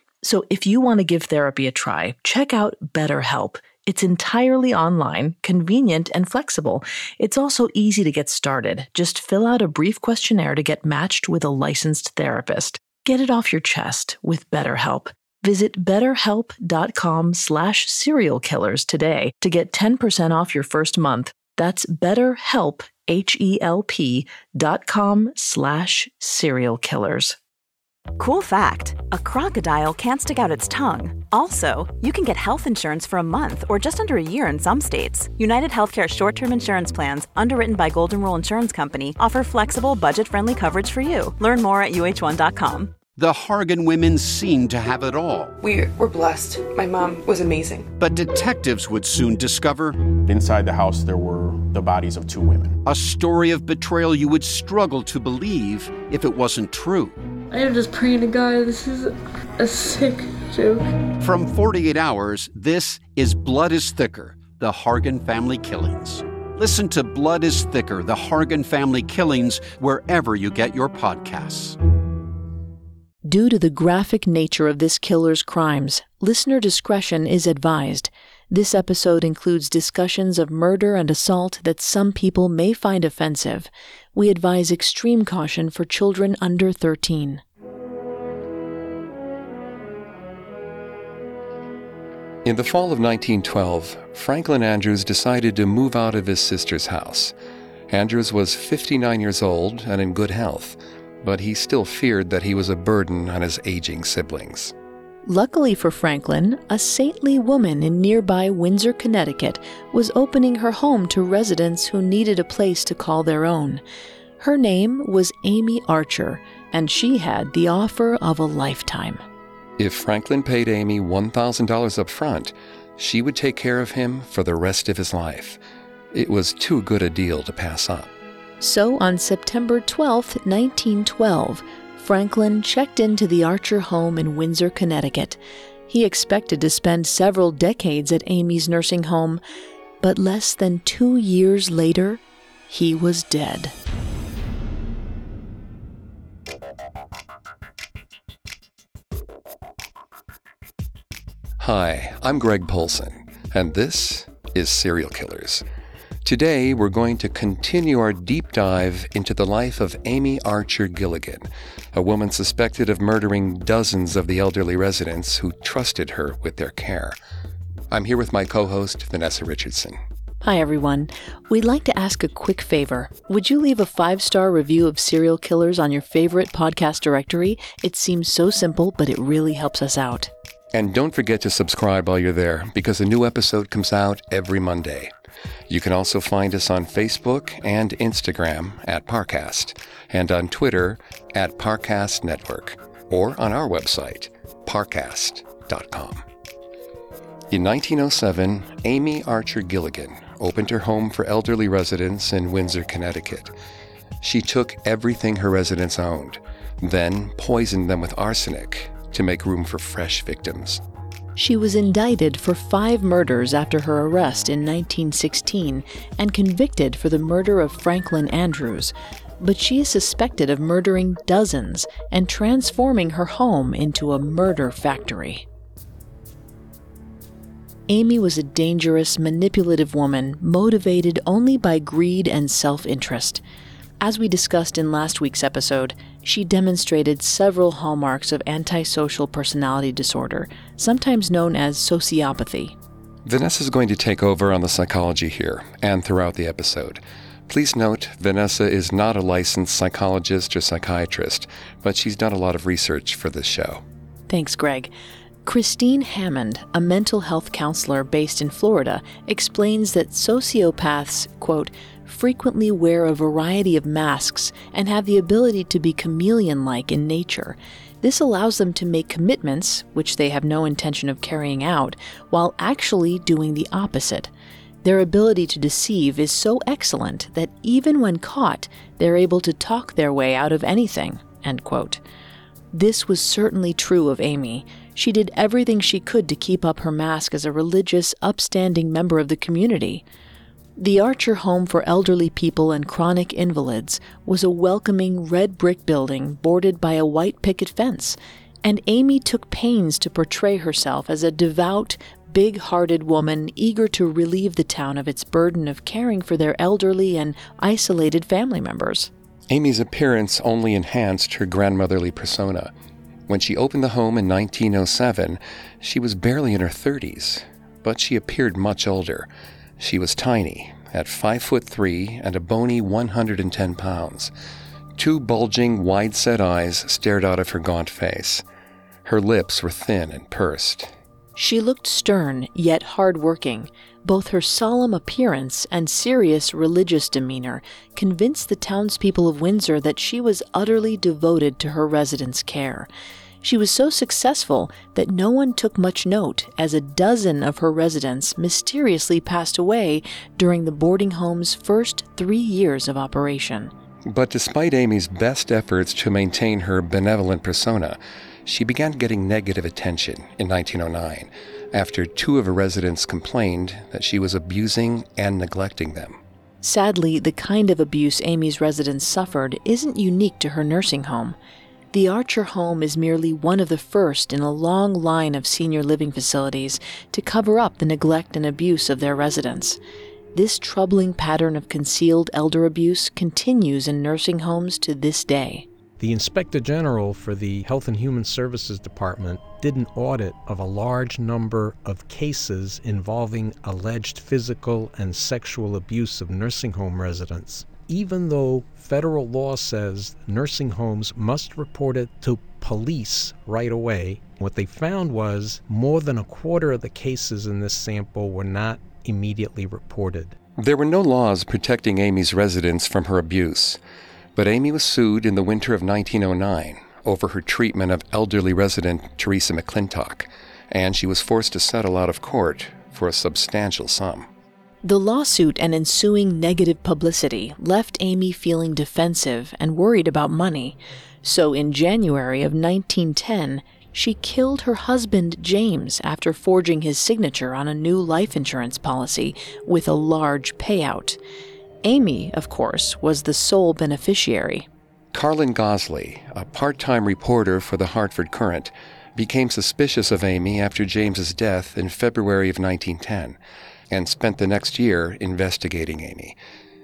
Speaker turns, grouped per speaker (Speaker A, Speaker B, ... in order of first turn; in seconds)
Speaker A: 0.2-27.4, 73.2-87.4, 105.2-113.8, 114.4-119.2, 128.6-139.4, 140.0-143.7, 170.4-180.3, 211.3-225.4, 227.9-233.4, 234.0-242.7, 254.3-254.9, 255.4-274.3, 274.8-282.0, 282.7-290.0, 290.8-309.1, 331.4-342.9, 343.4-353.7, 366.6-371.4, 371.9-379.8, 380.3-385.7, 424.8-441.2, 441.8-444.7
Speaker B: 28.1-43.0
Speaker C: 43.1-45.5, 48.0-50.0, 52.8-57.2, 61.2-71.8
Speaker D: 45.6-47.9
Speaker E: 50.2-52.8
Speaker F: 57.5-60.9
Speaker G: 92.4-97.3, 97.9-104.7, 119.8-125.6, 126.1-128.1, 151.6-155.6, 156.2-167.2, 167.9-170.0, 180.7-185.1, 185.7-196.2, 197.5-203.5, 204.2-210.8, 243.2-253.8, 309.5-312.7, 313.3-319.3, 319.8-324.3, 325.0-328.4, 329.0-330.9, 354.1-366.2, 410.6-413.8, 414.4-424.3, 445.1-453.4, 453.9-456.4
Speaker H: 386.0-410.3